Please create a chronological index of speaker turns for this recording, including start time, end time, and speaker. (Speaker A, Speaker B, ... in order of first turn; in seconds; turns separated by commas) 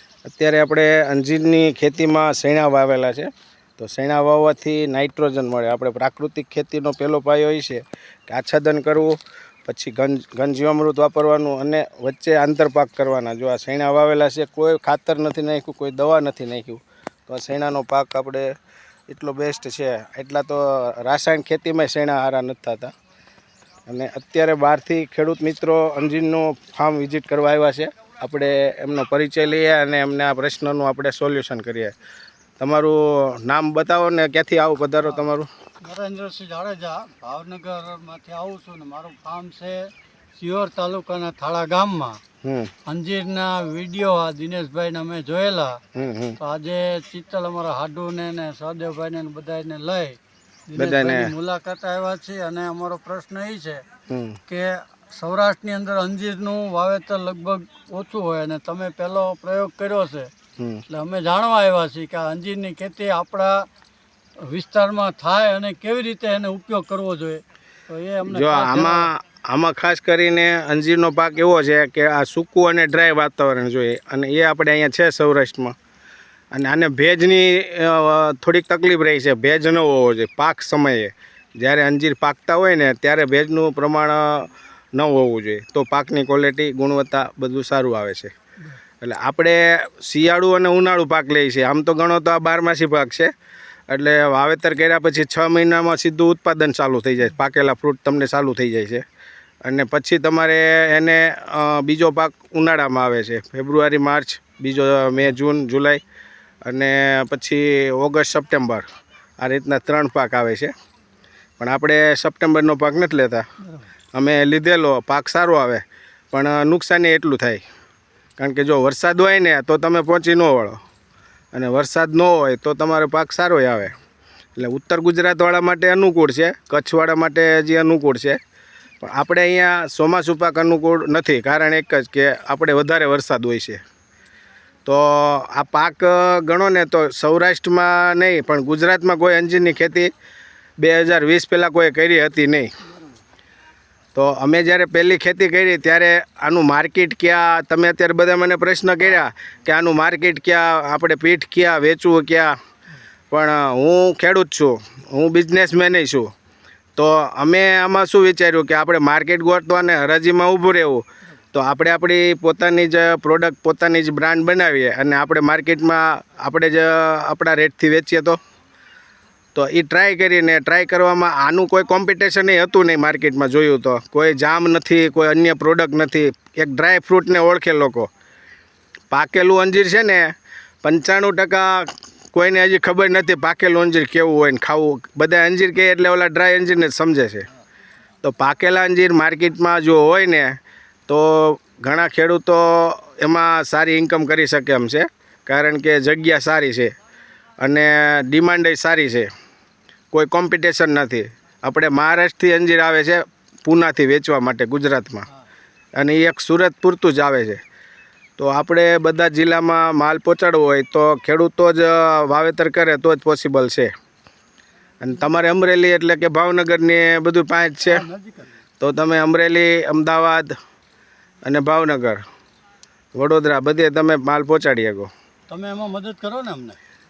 Speaker A: 0.2-18.5, Speaker A: 19.1-22.9, Speaker A: 23.9-31.9, Speaker A: 32.6-35.5, Speaker B: 35.8-42.2, Speaker A: 42.4-42.7, Speaker B: 42.8-45.8, Speaker A: 46.0-46.4, Speaker B: 46.4-53.8, Speaker A: 50.8-51.3, Speaker A: 54.1-54.4, Speaker B: 54.5-60.3, Speaker A: 60.6-60.8, Speaker B: 60.9-63.7, Speaker B: 64.4-69.1, Speaker A: 68.3-75.7, Speaker A: 76.5-88.3, Speaker A: 89.0-93.3, Speaker A: 93.9-99.0, Speaker A: 99.6-106.0, Speaker A: 106.6-108.8, Speaker A: 109.4-110.7, Speaker A: 111.6-113.5, Speaker A: 114.1-117.6, Speaker A: 118.4-120.8, Speaker A: 121.5-124.0, Speaker A: 124.6-128.4, Speaker A: 129.0-133.8, Speaker A: 134.8-140.1, Speaker A: 140.8-142.7, Speaker A: 144.1-152.5, Speaker A: 153.3-156.3, Speaker A: 157.0-168.4, Speaker A: 169.5-178.1, Speaker A: 179.1-187.5, Speaker A: 188.2-196.9, Speaker A: 197.6-199.3, Speaker A: 200.1-205.3, Speaker A: 205.9-207.6, Speaker A: 208.4-213.9, Speaker A: 215.0-218.0, Speaker B: 217.8-218.5, Speaker A: 218.8-220.5, Speaker A: 221.4-222.2, Speaker A: 223.1-225.1, Speaker B: 225.5-226.8